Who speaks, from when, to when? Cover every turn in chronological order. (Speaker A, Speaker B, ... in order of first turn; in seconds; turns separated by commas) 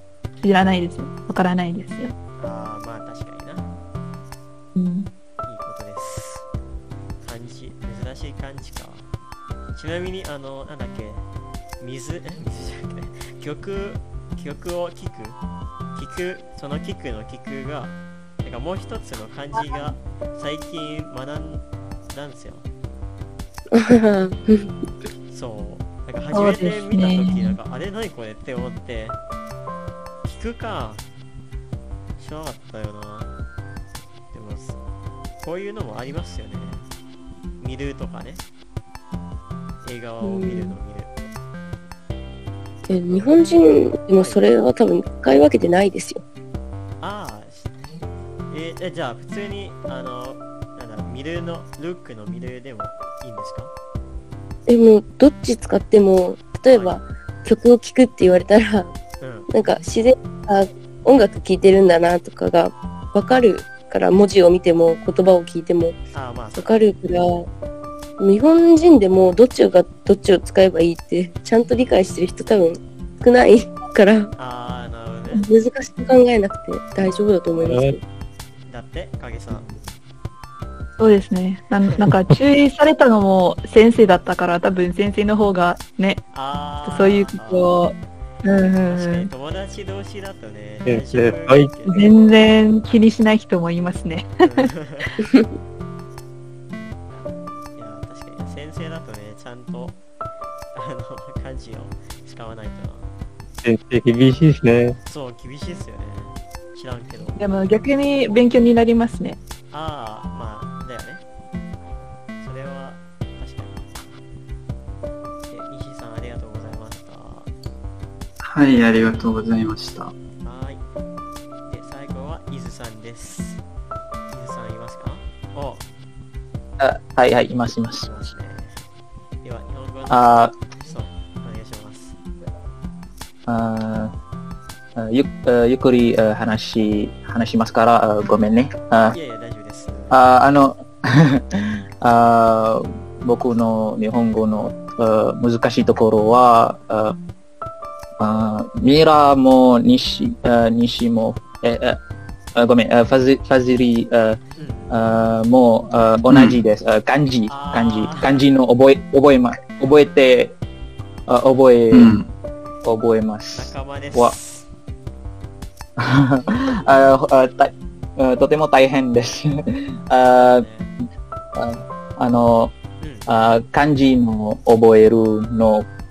Speaker A: 0.4-2.1, Speaker B: 2.4-3.7, Speaker A: 4.7-5.1, Speaker B: 5.4-6.5, Speaker B: 7.2-9.1, Speaker B: 9.7-11.2, Speaker B: 11.8-15.4, Speaker B: 15.9-22.7, Speaker A: 19.5-19.9, Speaker C: 23.7-24.7, Speaker B: 25.3-29.2, Speaker A: 26.3-27.6, Speaker B: 30.2-31.0, Speaker B: 32.2-33.4, Speaker B: 34.3-34.8, Speaker B: 35.4-36.9, Speaker B: 37.6-38.4, Speaker B: 39.8-41.1, Speaker C: 40.2-40.8, Speaker C: 42.8-46.2, Speaker B: 42.9-43.4, Speaker B: 44.2-44.4, Speaker B: 47.0-47.7, Speaker B: 48.5-53.7, Speaker C: 54.7-58.9, Speaker B: 56.7-57.0, Speaker B: 59.2-59.5, Speaker C: 59.5-66.0, Speaker B: 66.1-66.7, Speaker C: 66.5-67.5, Speaker C: 68.2-74.3, Speaker B: 74.3-75.5, Speaker C: 75.3-78.0, Speaker D: 77.6-78.0, Speaker B: 78.7-79.7, Speaker A: 81.0-86.2, Speaker B: 86.3-87.8, Speaker A: 86.8-89.3, Speaker B: 88.8-92.2, Speaker D: 90.8-91.7, Speaker A: 91.9-94.7, Speaker B: 94.4-95.1, Speaker B: 97.7-100.0, Speaker B: 100.7-103.1, Speaker D: 103.6-105.0, Speaker B: 105.0-107.4, Speaker A: 107.4-109.4, Speaker B: 109.7-111.2, Speaker B: 112.4-113.8, Speaker B: 115.5-117.5, Speaker E: 118.4-120.1, Speaker B: 120.4-120.8, Speaker B: 121.7-123.6, Speaker B: 124.3-125.8, Speaker F: 126.8-128.1, Speaker B: 128.0-128.8, Speaker B: 129.4-132.2, Speaker F: 130.1-130.6, Speaker F: 133.5-134.1, Speaker F: 135.0-139.2, Speaker B: 139.1-140.2, Speaker F: 140.1-141.4, Speaker F: 142.0-147.2, Speaker F: 148.2-152.0, Speaker F: 152.5-154.4, Speaker B: 154.6-155.0, Speaker F: 154.9-160.5, Speaker E: 156.3-156.6, Speaker B: 157.5-158.4, Speaker F: 161.3-162.1, Speaker E: 161.9-162.3, Speaker F: 162.8-164.3, Speaker B: 163.5-164.7, Speaker F: 166.0-169.5, Speaker F: 170.1-170.7, Speaker B: 170.4-170.9, Speaker F: 171.5-172.7, Speaker B: 173.0-173.3, Speaker F: 173.3-175.9